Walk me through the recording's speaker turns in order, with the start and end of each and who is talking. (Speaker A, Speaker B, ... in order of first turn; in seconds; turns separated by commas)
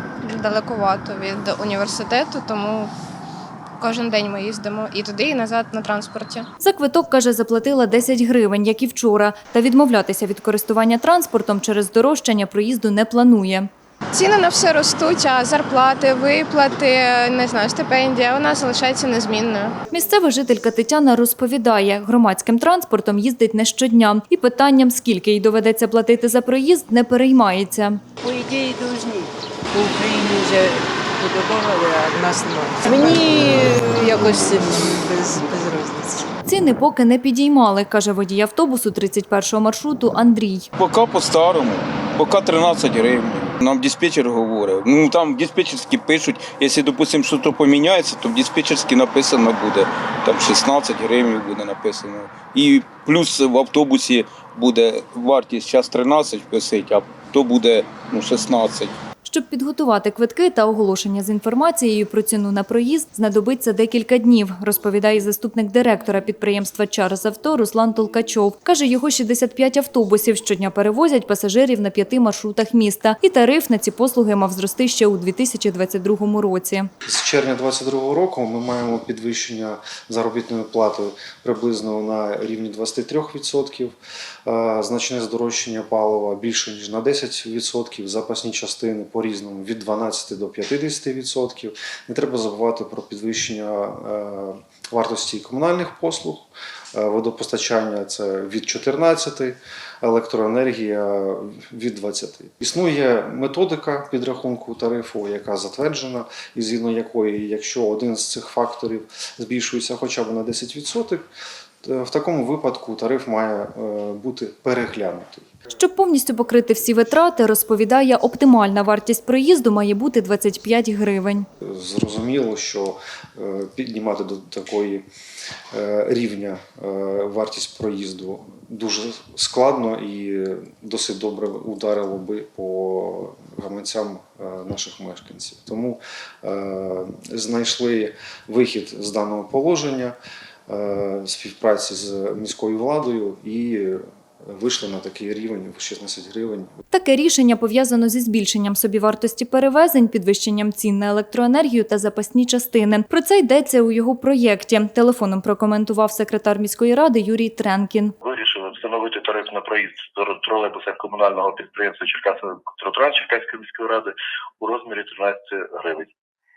Speaker A: 0.2-2.9, Speaker A: 3.8-6.5, Speaker B: 6.6-13.7, Speaker A: 14.1-19.8, Speaker B: 19.9-28.0, Speaker C: 28.2-36.3, Speaker B: 36.5-40.7, Speaker D: 40.8-58.9, Speaker B: 59.2-76.9, Speaker E: 77.0-83.9, Speaker E: 84.4-111.2, Speaker E: 111.8-115.5, Speaker B: 115.8-121.5, Speaker E: 121.6-125.0, Speaker E: 125.7-140.2, Speaker E: 140.7-146.7, Speaker B: 146.9-158.1, Speaker F: 158.2-166.1